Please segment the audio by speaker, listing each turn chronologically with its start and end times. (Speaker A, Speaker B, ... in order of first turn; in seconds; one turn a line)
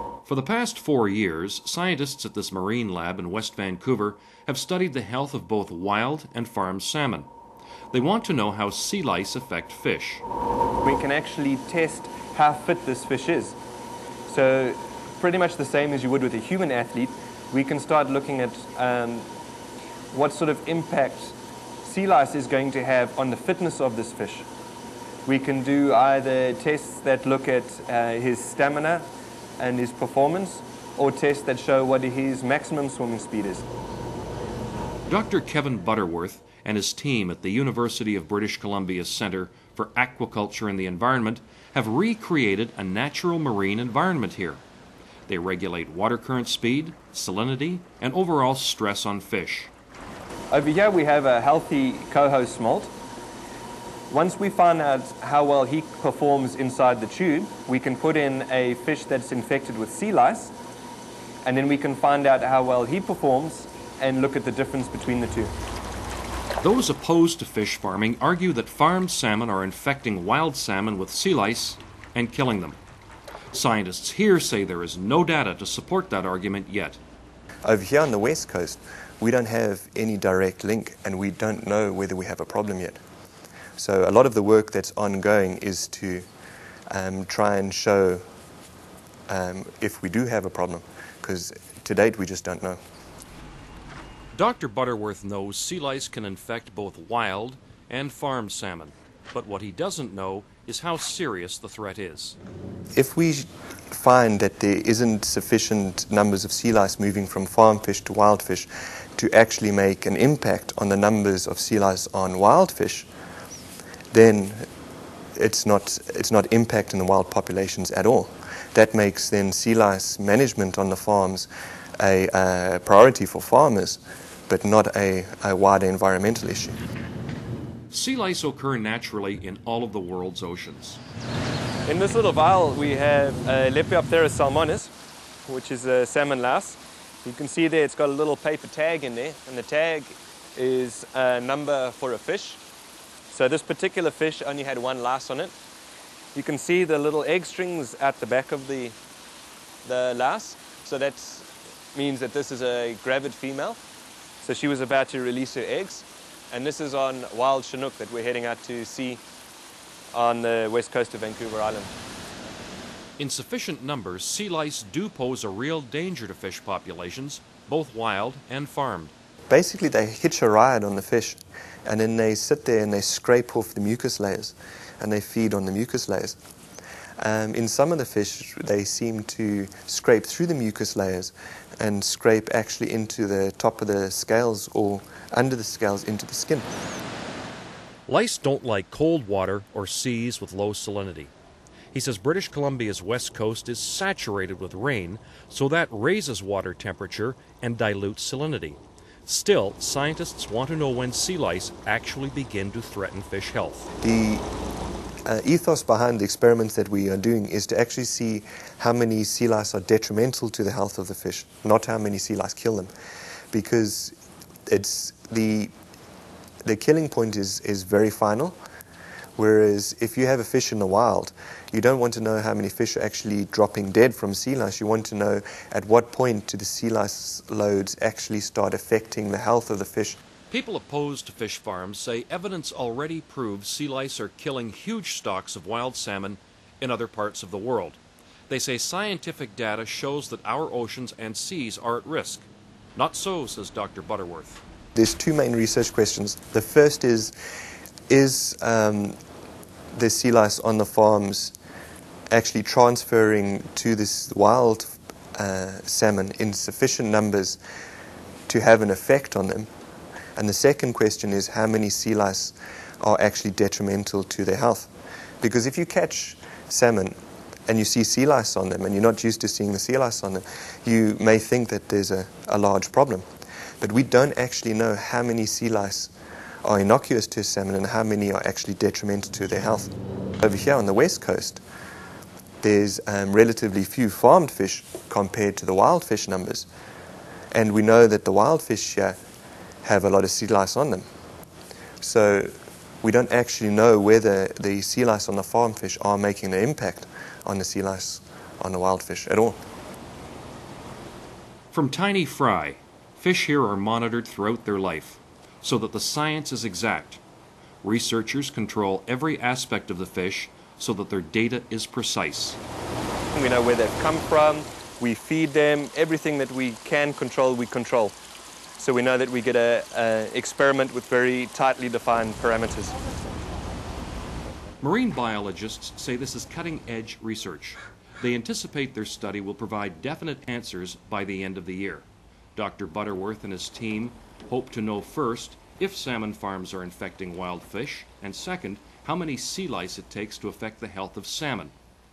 Speaker A: 0.2-7.3
Speaker A: 7.9-10.2
Speaker B: 10.8-13.5
Speaker B: 14.3-19.3
Speaker C: 15.7-16.0
Speaker B: 20.1-21.3
Speaker B: 21.9-24.4
Speaker C: 24.1-24.4
Speaker B: 25.3-29.1
Speaker C: 25.3-26.4
Speaker C: 28.2-28.9
Speaker B: 29.6-33.6
Speaker C: 30.1-30.4
Speaker C: 31.2-33.4
Speaker A: 35.1-44.6
Speaker A: 45.3-49.7
Speaker B: 50.5-52.9
Speaker C: 50.6-51.0
Speaker B: 54.1-60.5
Speaker C: 54.1-54.5
Speaker C: 55.6-56.8
Speaker B: 61.5-65.5
Speaker A: 66.6-72.8
Speaker A: 73.5-77.0
Speaker C: 77.7-83.0
Speaker C: 83.8-86.2
Speaker C: 86.9-88.2
Speaker C: 89.3-92.8
Speaker A: 94.3-102.4
Speaker C: 102.9-113.1
Speaker C: 114.1-114.6
Speaker C: 115.4-121.5
Speaker C: 122.0-126.8
Speaker A: 127.9-131.0
Speaker B: 131.9-134.9
Speaker B: 135.5-142.6
Speaker B: 143.3-145.5
Speaker B: 146.3-148.9
Speaker B: 149.8-153.8
Speaker B: 154.4-159.2
Speaker B: 160.1-161.9
Speaker A: 163.2-169.1
Speaker C: 169.5-176.4
Speaker C: 177.2-186.7
Speaker A: 188.1-191.3
Speaker A: 191.9-203.9
Speaker C: 204.0-204.4
Speaker C: 205.3-212.9
Speaker C: 213.5-214.2
Speaker C: 214.7-215.7
Speaker C: 216.7-218.6
Speaker C: 219.4-230.2
Speaker A: 230.5-244.6
Speaker C: 244.9-247.3
Speaker C: 248.1-249.2
Speaker C: 249.9-251.6
Speaker C: 252.3-257.6
Speaker C: 258.5-259.7
Speaker C: 260.4-264.9
Speaker C: 265.4-267.2
Speaker C: 267.7-273.2
Speaker C: 273.8-276.1
Speaker C: 276.6-281.6
Speaker C: 282.6-286.7
Speaker C: 287.5-289.2
Speaker C: 289.8-291.1
Speaker C: 292.0-299.6
Speaker A: 301.7-307.2
Speaker A: 307.8-312.6
Speaker C: 313.4-314.6
Speaker B: 313.4-318.1
Speaker C: 315.2-318.1
Speaker C: 318.8-322.2
Speaker B: 318.8-322.9
Speaker A: 324.8-341.7